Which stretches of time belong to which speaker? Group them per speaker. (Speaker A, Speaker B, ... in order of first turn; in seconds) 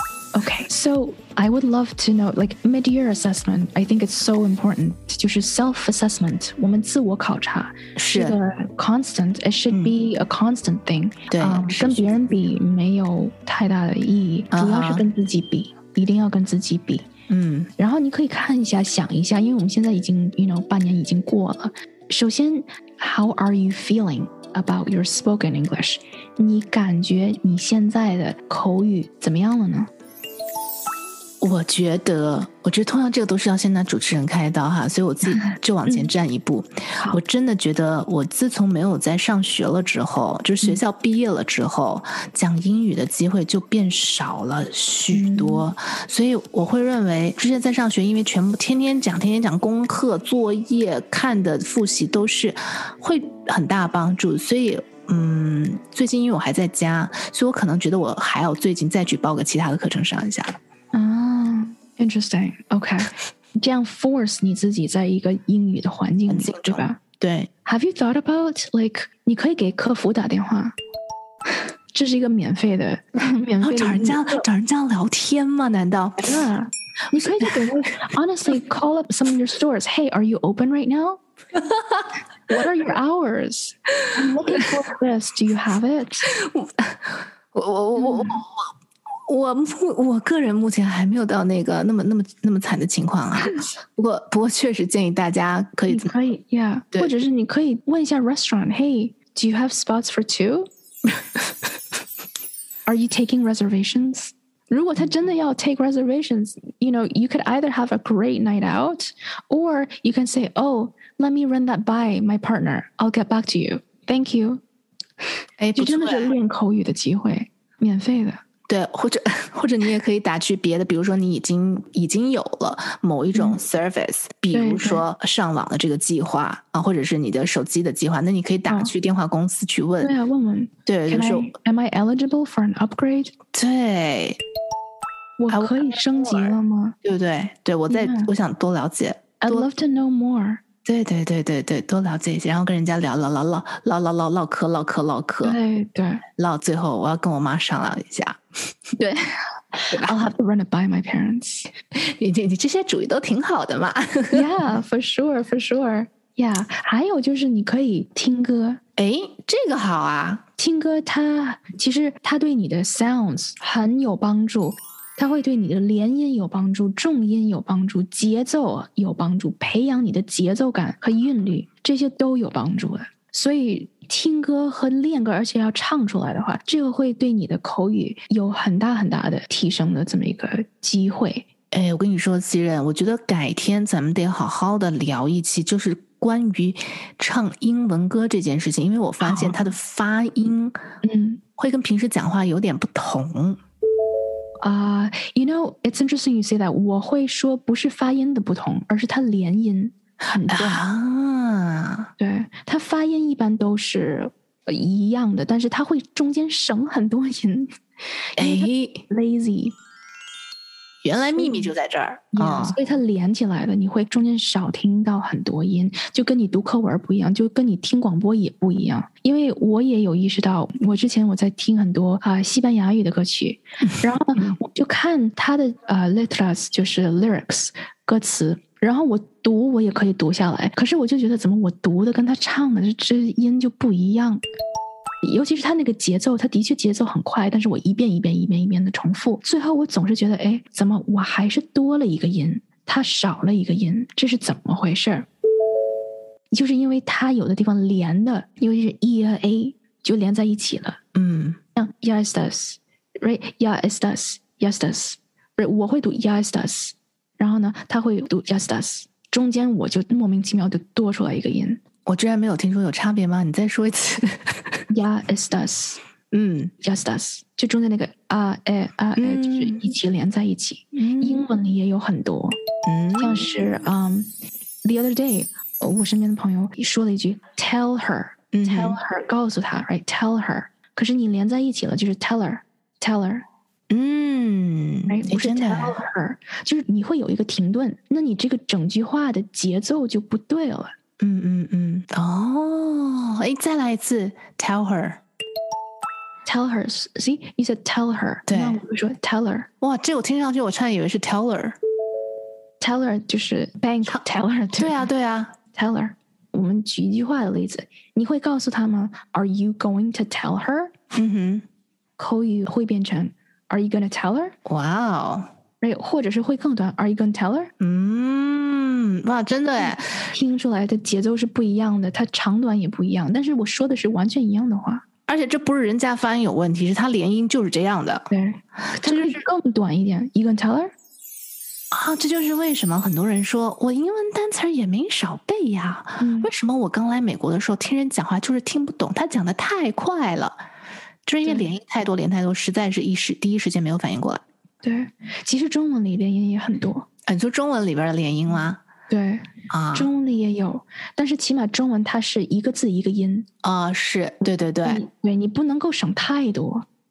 Speaker A: 0.3-17.1, 17.8-29.9, 35.4-36.1, 45.1-45.7, 60.9-67.0, 67.6-70.8, 71.9-74.4, 76.2-81.2, 82.5-86.3, 88.0-88.4, 93.4-93.7, 95.9-100.7, 102.9-114.6, 115.8-118.4, 124.5-125.0, 128.7-128.9, 130.0-133.3, 135.4-136.9, 137.9-138.3, 139.4-140.6, 145.4-146.2, 149.0-151.7, 154.3-158.8, 160.6-181.5, 189.2-189.6, 191.0-191.4, 194.6-200.8, 202.2-207.7, 208.3-209.8, 211.3-211.7, 212.3-234.4, 235.2-245.3, 246.5-251.0, 251.8-261.8, 264.9-266.0, 266.8-272.6, 273.2-274.3, 274.8-283.4, 285.1-290.9, 296.4-299.7, 302.8-305.1, 305.7-310.9, 312.2-314.5, 315.8-317.7, 319.8-325.0, 328.3-330.9, 336.2-336.5, 344.8-347.1, 349.1-353.5, 354.8-356.9
Speaker B: 8.0-8.4, 11.3-12.2, 14.5-15.1, 17.3-17.7, 31.4-60.6, 66.3-67.5, 73.6-76.4, 77.2-77.5, 81.5-82.1, 84.2-84.6, 86.3-88.7, 89.3-96.1, 115.6-116.3, 118.7-130.1, 130.9-131.5, 133.5-134.4, 135.5-139.7, 140.8-145.6, 146.4-148.4, 151.9-154.5, 159.0-160.4, 181.7-190.8, 191.6-193.6, 200.5-202.1, 208.4-209.0, 211.0-212.8, 251.1-251.6, 262.1-264.8, 266.3-266.7, 269.2-269.8, 270.9-271.4, 272.9-273.5, 278.5-279.0, 283.9-286.0, 291.2-295.2, 298.5-298.8, 299.8-301.8, 304.1-305.6, 311.1-311.6, 314.6-315.5, 317.8-320.3, 325.3-328.3, 328.9-329.4, 331.9-340.6, 341.2-344.4, 347.3-348.8, 349.7-350.1, 353.6-355.0